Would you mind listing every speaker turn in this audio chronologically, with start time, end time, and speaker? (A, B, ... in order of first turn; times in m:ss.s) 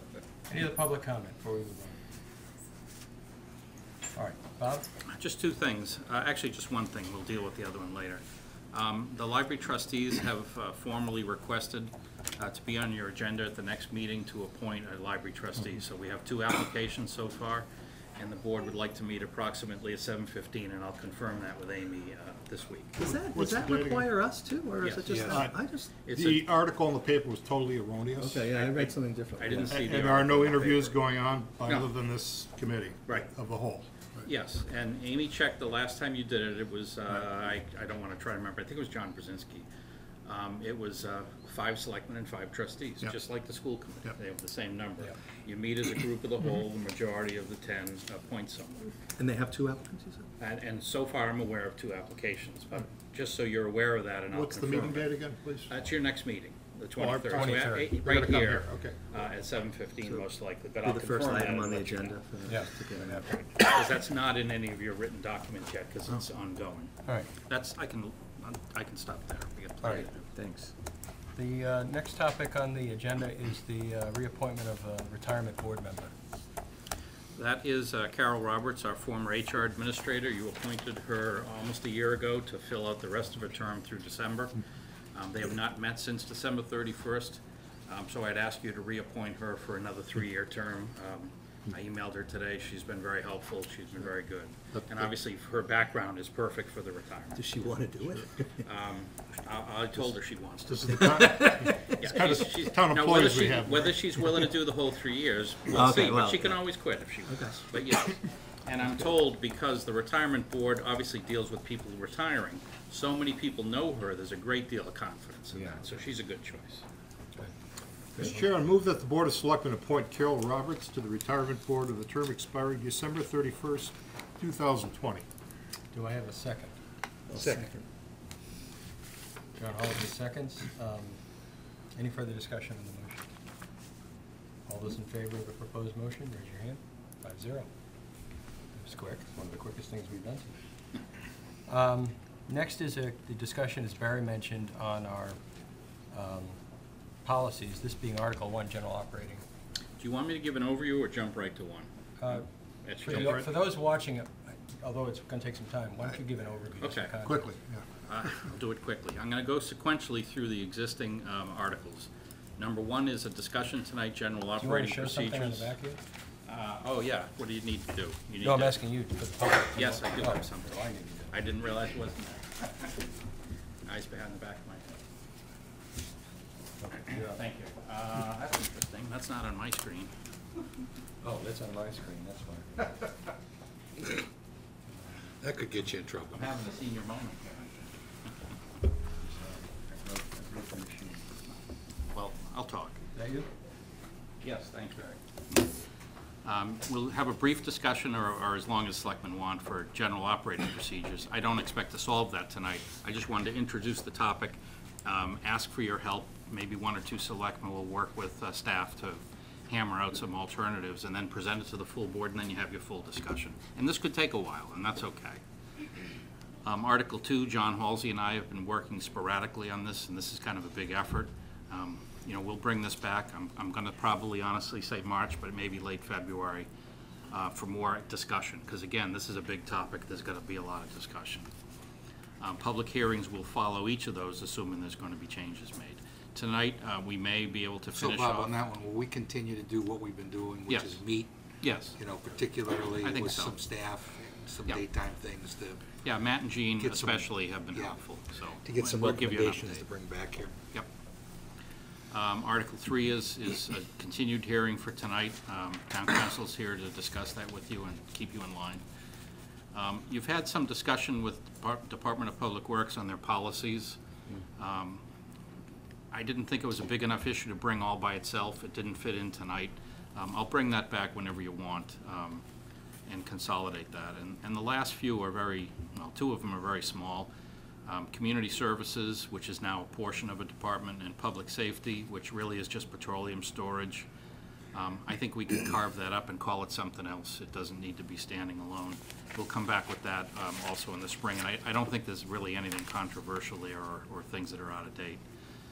0:00.5-0:02.0 A
0:04.1-0:04.9 A
0:05.1-0:08.2 B
0:08.7-0:23.0 B
0:23.0-0:25.9 C
0:23.1-0:24.2 D
0:24.8-0:25.4 B
0:25.2-0:28.5 D
0:26.0-0:26.4 B
0:28.2-0:29.8 C
0:29.4-0:31.0 B
0:29.6-0:34.3 D
0:34.3-0:39.7 B
0:40.2-0:48.9 B
0:49.2-0:50.3 C
0:50.4-0:55.2 B
0:54.3-0:55.7 D
0:55.7-1:02.2 B
0:57.0-0:59.0 D
0:57.3-0:58.0 A
1:00.8-1:03.4 C
1:03.6-1:06.9 B
1:07.5-1:10.3 B
1:09.8-1:10.7 C
1:11.4-1:16.1 A
1:17.4-1:24.6 B
1:25.1-1:37.4 B
1:37.4-1:38.5 C
1:38.6-1:56.8 B
1:40.7-1:44.1 D
1:40.9-1:42.0 C
1:45.7-1:46.7 C
1:47.3-1:47.7 C
1:55.6-1:55.8 C
1:58.2-2:05.3 D
2:05.9-2:06.7 A
2:07.3-2:07.8 C
2:09.6-2:11.2 A
2:12.0-2:13.2 A
2:14.7-2:17.7 A
2:18.8-2:20.6 A
2:21.7-2:25.4 A
2:26.1-2:26.6 A
2:27.2-2:29.4 A
2:30.0-2:31.9 B
2:32.2-2:32.5 A
2:32.8-2:33.4 B
2:33.0-2:37.5 A
2:33.1-2:33.5 D
2:36.8-2:37.1 B
2:37.2-2:37.8 D
2:38.0-2:45.7 B
2:44.6-2:46.0 A
2:46.5-2:48.8 B
2:48.4-2:51.4 A
2:49.7-2:53.0 B
2:53.9-2:55.0 B
2:56.8-2:57.4 A
2:57.1-3:00.1 B
3:01.2-3:03.1 A
3:05.4-3:06.5 E
3:06.3-3:07.9 B
3:09.2-3:11.4 A
3:12.1-3:13.0 B
3:13.1-3:13.5 A
3:14.4-3:15.2 B
3:16.4-3:35.4 B
3:36.6-3:46.7 B
3:47.3-3:51.5 B
3:52.4-3:58.6 B
3:57.9-4:01.3 E
4:00.7-4:01.0 B
4:01.6-4:02.0 B
4:02.0-4:05.9 E
4:02.9-4:03.6 B
4:06.0-4:09.9 B
4:06.8-4:08.0 E
4:08.6-4:10.6 E
4:12.1-4:18.8 B
4:19.7-4:24.0 B
4:24.6-4:25.0 B
4:26.1-4:32.4 B
4:33.1-4:37.3 B
4:37.9-4:44.1 B
4:44.7-4:55.2 B